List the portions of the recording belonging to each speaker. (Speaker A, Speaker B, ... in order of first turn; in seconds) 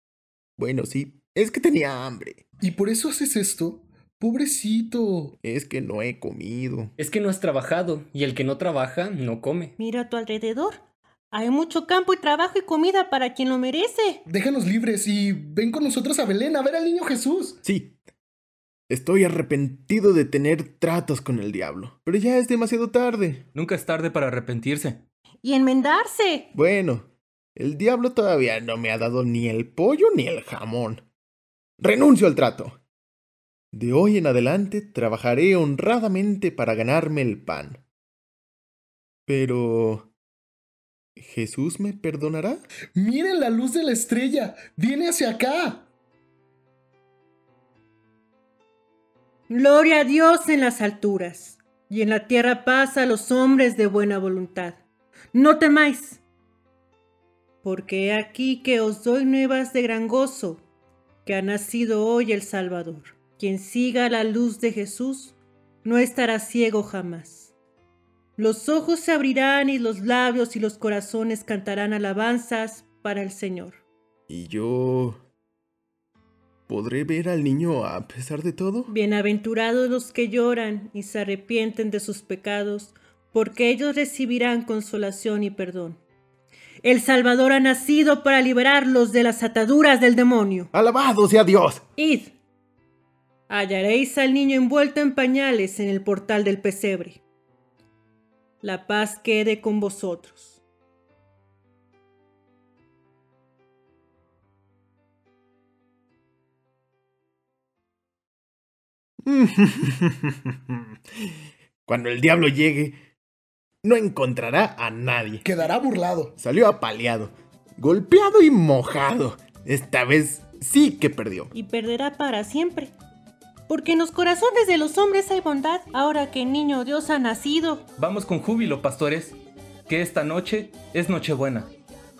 Speaker A: 0.6-2.4, 5.4-6.9, 17.6-18.0, 18.9-23.4, 26.5-31.0, 31.8-32.8, 33.7-37.8, 39.3-40.1, 41.2-42.6, 74.3-75.2, 76.7-78.9, 90.7-91.8, 109.2-110.7, 111.8-113.0, 113.8-115.4, 116.4-121.5
Speaker B: 2.6-5.3, 14.3-17.6, 43.0-45.9, 115.4-116.3
Speaker C: 7.0-9.7
Speaker D: 9.8-14.2, 25.4-26.5, 49.5-54.8, 55.3-56.2, 57.6-60.6, 61.2-67.5, 68.4-73.8, 78.9-86.0, 86.8-90.7, 92.0-92.3, 93.5-97.2, 98.6-100.6, 121.5-122.9, 123.7-127.8
Speaker E: 23.5-25.0, 128.0-131.7